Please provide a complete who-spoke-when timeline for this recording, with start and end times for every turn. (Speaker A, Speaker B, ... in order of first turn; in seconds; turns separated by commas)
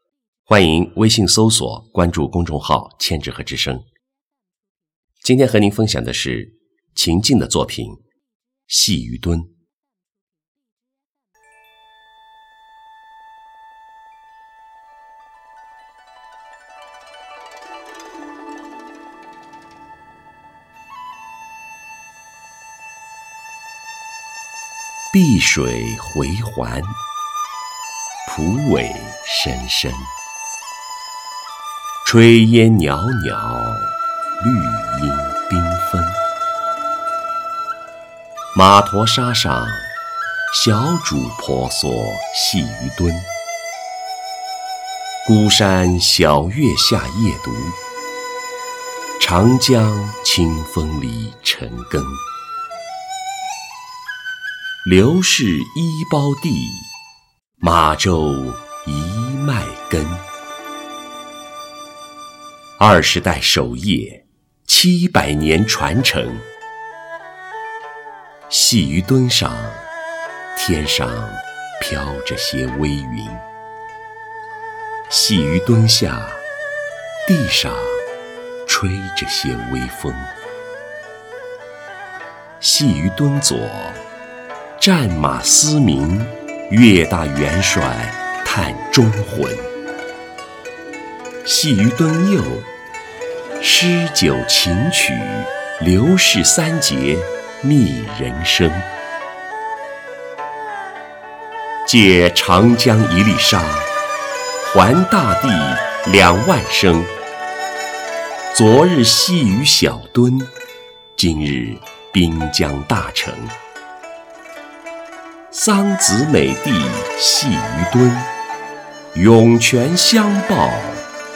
Speaker A: 0.5-3.9, Speaker A: 5.2-8.0, Speaker A: 8.7-9.5, Speaker A: 25.1-26.9, Speaker A: 28.2-30.1, Speaker A: 32.0-36.2, Speaker A: 38.5-39.9, Speaker A: 40.5-43.3, Speaker A: 45.2-47.8, Speaker A: 49.2-52.2, Speaker A: 54.8-56.9, Speaker A: 57.6-60.2, Speaker A: 62.8-66.5, Speaker A: 68.5-69.8, Speaker A: 70.5-73.4, Speaker A: 75.1-76.4, Speaker A: 77.2-78.0, Speaker A: 78.7-80.3, Speaker A: 82.6-84.0, Speaker A: 84.8-89.7, Speaker A: 91.4-92.7, Speaker A: 93.6-98.9, Speaker A: 101.8-103.9, Speaker A: 104.6-107.1, Speaker A: 108.5-110.5, Speaker A: 111.2-113.5, Speaker A: 115.5-118.3, Speaker A: 119.1-121.1